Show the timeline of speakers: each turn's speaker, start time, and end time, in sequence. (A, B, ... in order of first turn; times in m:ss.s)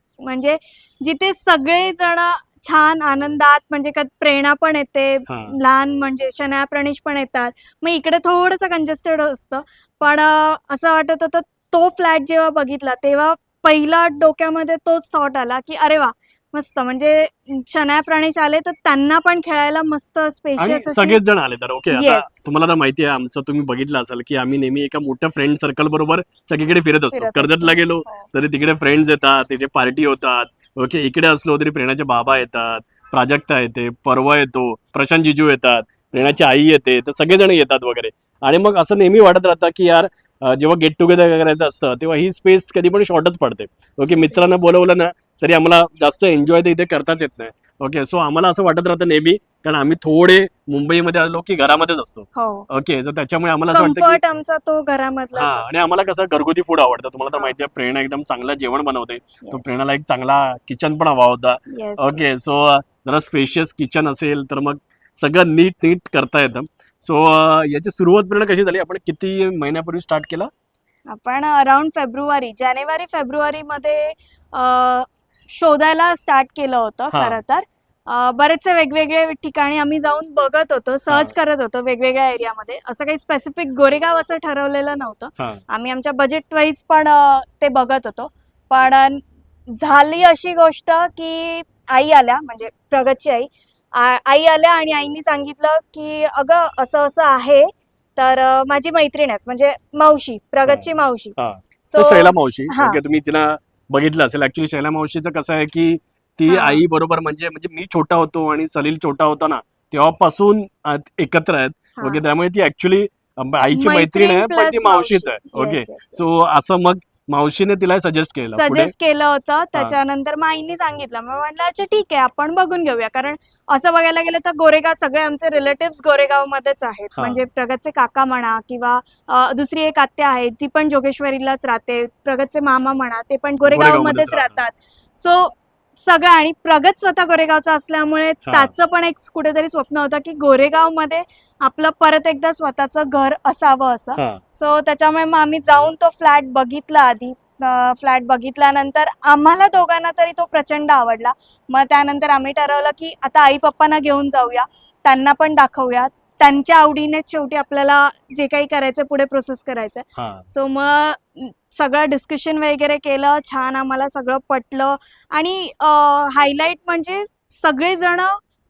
0:00.2-0:21.2 A
0:05.3-0:05.5 B
0:20.6-0:54.2 B
0:21.9-0:22.5 A
0:27.1-0:28.3 A
0:52.4-0:52.7 A
0:53.7-0:55.7 A
0:55.3-1:10.5 B
0:59.4-0:59.7 A
1:01.7-1:02.1 A
1:11.1-1:41.4 A
1:17.1-1:17.4 B
1:40.6-1:58.9 B
1:41.9-1:43.0 A
1:46.5-1:46.8 A
1:52.0-1:52.2 A
1:53.7-1:56.2 A
1:58.5-2:48.4 A
2:07.2-2:07.4 B
2:13.7-2:14.6 B
2:18.5-2:18.7 B
2:24.2-2:24.4 B
2:40.2-2:40.5 B